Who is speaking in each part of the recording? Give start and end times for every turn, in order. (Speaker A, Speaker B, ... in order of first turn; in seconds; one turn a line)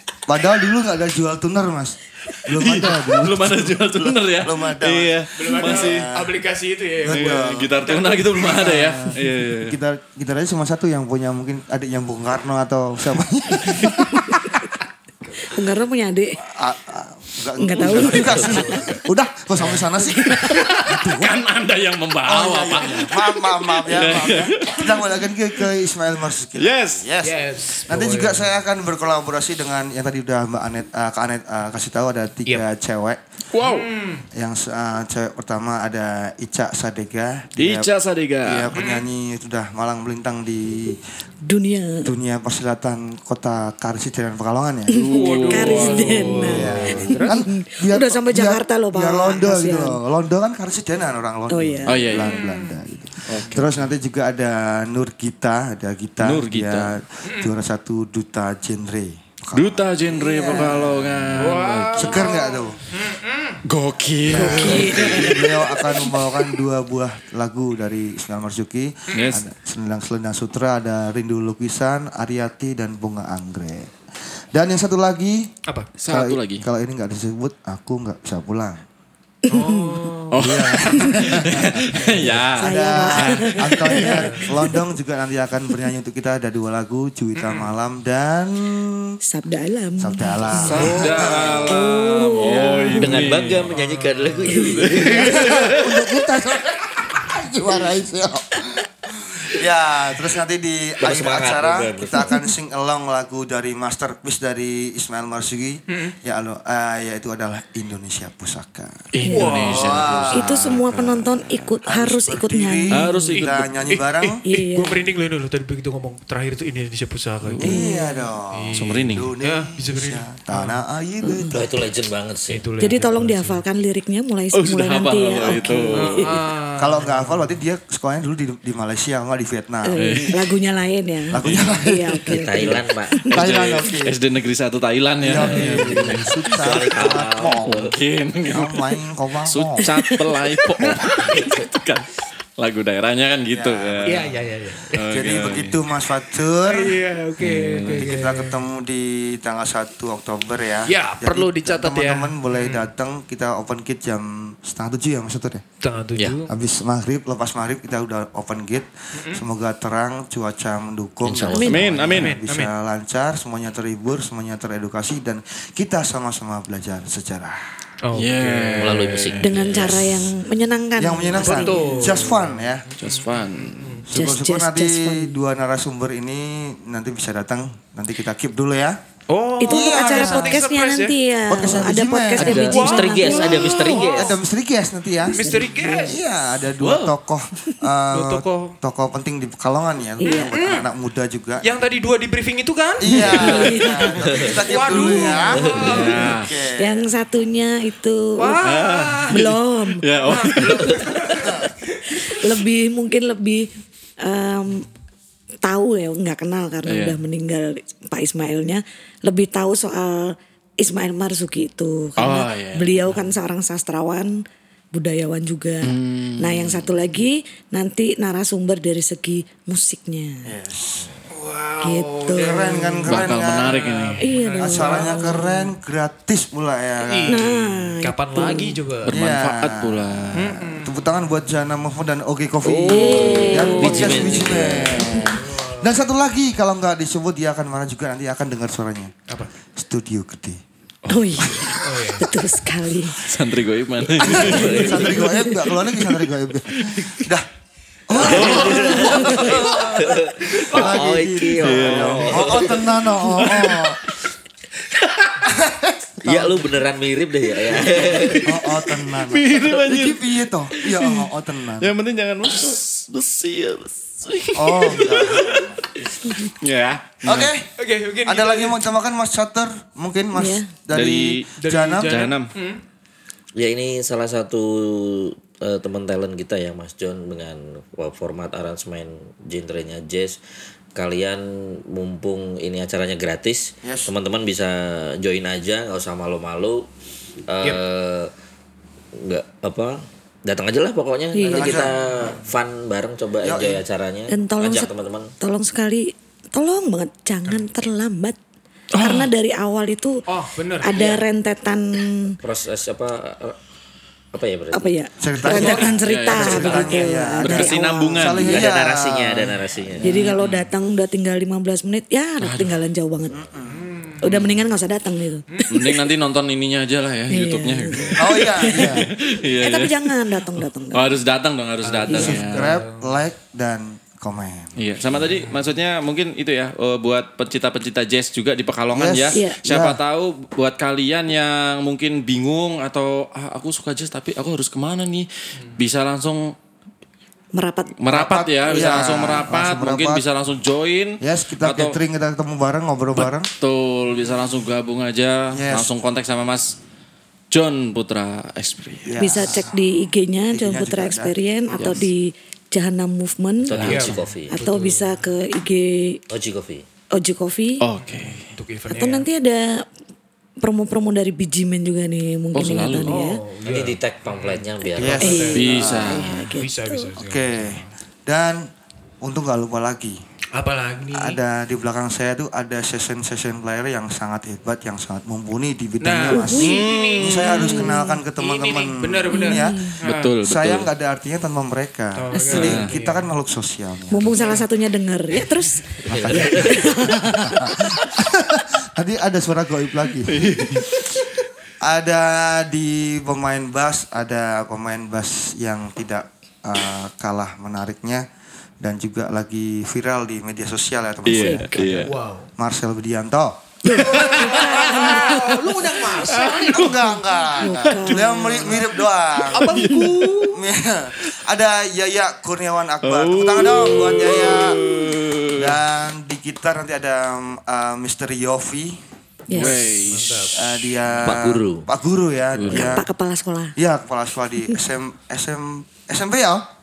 Speaker A: 0.2-6.4
Speaker B: 2.5-6.1
Speaker C: 5.3-8.3
Speaker A: 7.0-14.4
Speaker B: 7.1-9.8
Speaker D: 15.4-16.4
Speaker A: 16.4-21.4
Speaker D: 17.6-18.8
Speaker B: 17.8-18.3
Speaker C: 18.1-19.0
Speaker B: 20.2-25.1
Speaker A: 22.2-33.2
Speaker B: 26.6-27.1
Speaker C: 27.2-28.4
Speaker B: 33.5-33.9
Speaker C: 33.6-34.2
Speaker A: 34.3-37.9
Speaker B: 37.6-38.7
Speaker A: 38.4-41.0
Speaker C: 38.7-39.0
Speaker D: 41.5-42.1
Speaker A: 42.0-45.1
Speaker D: 44.9-50.0
Speaker B: 45.0-47.2
Speaker C: 45.1-47.4
Speaker A: 46.5-62.8
Speaker D: 51.5-52.0
Speaker B: 51.9-52.4
Speaker C: 52.2-52.8
Speaker B: 53.3-53.7
Speaker B: 56.2-56.9
Speaker C: 57.2-57.5
Speaker B: 59.5-62.3
Speaker C: 61.4-63.6
Speaker B: 63.6-65.5
Speaker A: 64.2-73.9
Speaker D: 64.3-66.0
Speaker B: 69.1-69.5
Speaker A: 74.5-75.5
Speaker B: 76.0-76.7
Speaker A: 76.1-78.8
Speaker D: 79.5-80.1
Speaker C: 79.5-80.4
Speaker B: 80.3-84.1
Speaker A: 80.4-89.2
Speaker C: 81.9-82.5
Speaker D: 82.6-84.8
Speaker C: 84.0-84.4
Speaker C: 87.4-87.7
Speaker D: 89.2-93.2
Speaker A: 90.0-91.8
Speaker B: 90.5-93.7
Speaker C: 90.7-91.4
Speaker E: 93.0-95.3
Speaker C: 93.6-94.6
Speaker D: 94.5-95.4
Speaker B: 94.5-96.0
Speaker A: 95.1-109.1
Speaker E: 101.0-102.3
Speaker C: 105.9-106.1
Speaker B: 109.1-111.7
Speaker D: 109.2-109.5
Speaker C: 109.2-110.1
Speaker A: 109.6-110.9
Speaker D: 110.3-113.4
Speaker A: 111.8-114.4
Speaker B: 112.9-113.8
Speaker C: 113.9-117.8
Speaker D: 114.4-115.0
Speaker B: 117.4-117.8
Speaker A: 117.6-121.8
Speaker D: 117.6-118.2
Speaker C: 118.5-120.8
Speaker B: 118.7-119.3
Speaker D: 121.2-121.5
Speaker E: 121.5-122.7
Speaker C: 122.5-123.6
Speaker D: 122.8-126.4
Speaker B: 124.5-126.3
Speaker A: 125.5-126.0
Speaker C: 125.9-127.6
Speaker A: 126.8-130.2
Speaker D: 129.8-133.2
Speaker B: 129.9-130.4
Speaker A: 131.3-132.3
Speaker B: 131.4-131.7
Speaker E: 132.3-133.3
Speaker A: 133.3-134.1
Speaker B: 133.3-144.3
Speaker A: 135.2-137.9
Speaker E: 135.7-137.9
Speaker A: 138.5-139.9
Speaker D: 139.8-140.1
Speaker A: 143.5-144.2
Speaker C: 144.1-145.0
Speaker B: 144.9-145.8
Speaker A: 145.1-147.0
Speaker C: 146.7-148.6
Speaker B: 147.4-148.1
Speaker A: 147.8-155.6
Speaker C: 150.9-152.9
Speaker C: 155.8-156.5
Speaker A: 156.5-167.6
Speaker C: 159.1-159.4
Speaker E: 161.2-161.8
Speaker D: 161.5-161.9
Speaker B: 161.6-162.4
Speaker C: 162.2-162.7
Speaker C: 168.0-169.3
Speaker B: 168.1-170.2
Speaker E: 168.8-170.1
Speaker D: 169.4-172.2
Speaker A: 171.0-172.8
Speaker C: 171.3-174.1
Speaker B: 173.0-174.0
Speaker A: 174.1-179.0
Speaker D: 174.1-175.3
Speaker C: 179.3-181.1
Speaker D: 179.6-183.9
Speaker A: 179.6-180.6
Speaker A: 181.5-182.7
Speaker E: 182.4-184.3
Speaker C: 182.4-184.3
Speaker A: 184.1-191.6
Speaker D: 185.3-186.1
Speaker C: 185.3-186.2
Speaker B: 186.8-187.1
Speaker C: 188.1-188.7
Speaker D: 190.2-190.6
Speaker C: 190.2-190.8
Speaker C: 191.6-196.3
Speaker A: 193.0-197.1
Speaker D: 193.4-194.1
Speaker E: 194.3-194.5
Speaker D: 194.9-195.4
Speaker E: 195.5-196.0
Speaker B: 195.7-196.5
Speaker D: 195.9-198.6
Speaker C: 198.4-199.4
Speaker B: 198.6-201.0
Speaker D: 199.3-200.6
Speaker C: 200.2-201.7
Speaker E: 200.8-201.1
Speaker D: 202.1-203.7
Speaker D: 204.2-204.9
Speaker D: 205.6-220.5
Speaker B: 206.8-207.2
Speaker B: 212.2-213.3
Speaker B: 215.8-216.9
Speaker A: 220.4-221.1
Speaker C: 221.3-225.7
Speaker D: 221.8-222.6
Speaker A: 222.3-223.8
Speaker B: 223.1-224.3
Speaker D: 224.2-225.2
Speaker A: 224.6-227.4
Speaker C: 227.0-229.1
Speaker D: 227.3-228.8
Speaker B: 229.1-230.6
Speaker A: 229.1-239.1
Speaker C: 230.3-231.0
Speaker E: 232.6-235.2
Speaker D: 232.9-235.3
Speaker C: 235.3-235.9
Speaker A: 239.8-240.6
Speaker B: 241.0-241.7
Speaker D: 241.1-243.3
Speaker C: 241.8-242.3
Speaker B: 243.1-245.1
Speaker D: 244.2-246.2
Speaker A: 244.2-247.5
Speaker E: 244.4-245.1
Speaker A: 248.1-254.0
Speaker E: 248.1-252.9
Speaker B: 248.2-249.5
Speaker D: 249.1-249.6
Speaker B: 251.6-254.0
Speaker A: 255.4-256.7
Speaker E: 256.2-258.6
Speaker B: 257.7-261.2
Speaker A: 258.4-261.9
Speaker B: 261.8-265.9
Speaker A: 264.5-265.8
Speaker D: 266.2-266.5
Speaker B: 266.6-267.5
Speaker A: 267.2-267.7
Speaker C: 267.8-268.8
Speaker A: 268.2-272.1
Speaker D: 270.3-270.7
Speaker B: 270.9-271.5
Speaker C: 271.6-272.8
Speaker B: 272.0-272.5
Speaker E: 273.5-280.4
Speaker E: 280.9-286.9
Speaker A: 283.8-284.1
Speaker E: 287.5-288.3
Speaker E: 289.1-295.3
Speaker D: 291.3-291.9
Speaker A: 291.4-291.9
Speaker A: 293.4-293.8
Speaker D: 294.3-298.4
Speaker B: 298.9-299.3
Speaker D: 299.0-300.2
Speaker C: 300.3-301.1
Speaker D: 300.8-302.4
Speaker E: 300.9-301.2
Speaker E: 302.4-303.6
Speaker E: 304.3-304.9
Speaker D: 304.7-308.3
Speaker A: 305.2-309.6
Speaker E: 305.5-305.8
Speaker C: 305.6-305.9
Speaker B: 305.8-308.7
Speaker C: 306.6-307.0
Speaker E: 308.3-310.2
Speaker B: 310.0-310.7
Speaker D: 310.0-313.5
Speaker B: 312.4-312.8
Speaker A: 313.3-313.9
Speaker C: 313.6-314.2
Speaker D: 314.2-316.0
Speaker B: 314.2-314.7
Speaker B: 315.7-322.7
Speaker D: 317.3-321.1
Speaker A: 318.2-319.1
Speaker C: 321.8-323.2
Speaker A: 322.1-324.9
Speaker D: 322.1-322.4
Speaker B: 324.8-336.5
Speaker C: 325.3-325.6
Speaker A: 328.9-330.0
Speaker D: 337.5-338.0
Speaker B: 338.0-342.0
Speaker A: 338.1-340.2
Speaker D: 338.6-339.1
Speaker A: 341.2-343.5
Speaker B: 343.1-346.8
Speaker A: 345.5-345.9
Speaker B: 347.5-349.2
Speaker A: 349.0-349.8
Speaker D: 349.2-356.2
Speaker A: 350.5-352.0
Speaker B: 351.8-352.1
Speaker E: 353.6-354.6
Speaker B: 353.6-354.1
Speaker C: 353.8-355.2
Speaker E: 356.3-356.8
Speaker D: 357.1-357.8
Speaker B: 357.8-358.5
Speaker C: 358.0-359.3
Speaker D: 358.9-359.8
Speaker D: 360.6-363.4
Speaker B: 362.5-363.2
Speaker C: 363.0-367.9
Speaker E: 363.6-365.5
Speaker A: 364.9-365.7
Speaker D: 365.2-367.1
Speaker B: 365.5-366.5
Speaker A: 367.2-368.7
Speaker A: 369.2-370.2
Speaker C: 370.5-371.4
Speaker A: 371.1-384.5
Speaker C: 376.0-380.3
Speaker D: 376.3-376.8
Speaker B: 376.5-377.7
Speaker D: 377.5-378.2
Speaker D: 379.3-380.0
Speaker B: 380.0-380.9
Speaker C: 382.1-383.3
Speaker B: 382.4-382.9
Speaker D: 384.1-387.6
Speaker C: 384.3-384.6
Speaker E: 386.1-386.9
Speaker A: 386.1-390.8
Speaker B: 390.3-391.0
Speaker A: 391.8-398.2
Speaker A: 398.8-405.4
Speaker B: 401.2-402.1
Speaker D: 401.3-401.8
Speaker C: 402.0-402.5
Speaker D: 403.8-405.6
Speaker C: 403.9-407.0
Speaker B: 404.0-405.3
Speaker B: 406.3-408.5
Speaker A: 406.7-409.8
Speaker D: 407.6-408.8
Speaker B: 409.4-410.4
Speaker C: 409.5-410.6
Speaker A: 410.5-419.0
Speaker B: 413.0-415.8
Speaker D: 419.5-419.8
Speaker B: 419.5-420.5
Speaker C: 419.6-420.6
Speaker A: 420.5-423.1
Speaker E: 421.2-421.9
Speaker B: 422.5-423.0
Speaker E: 422.7-422.9
Speaker D: 422.7-423.8
Speaker A: 423.8-426.6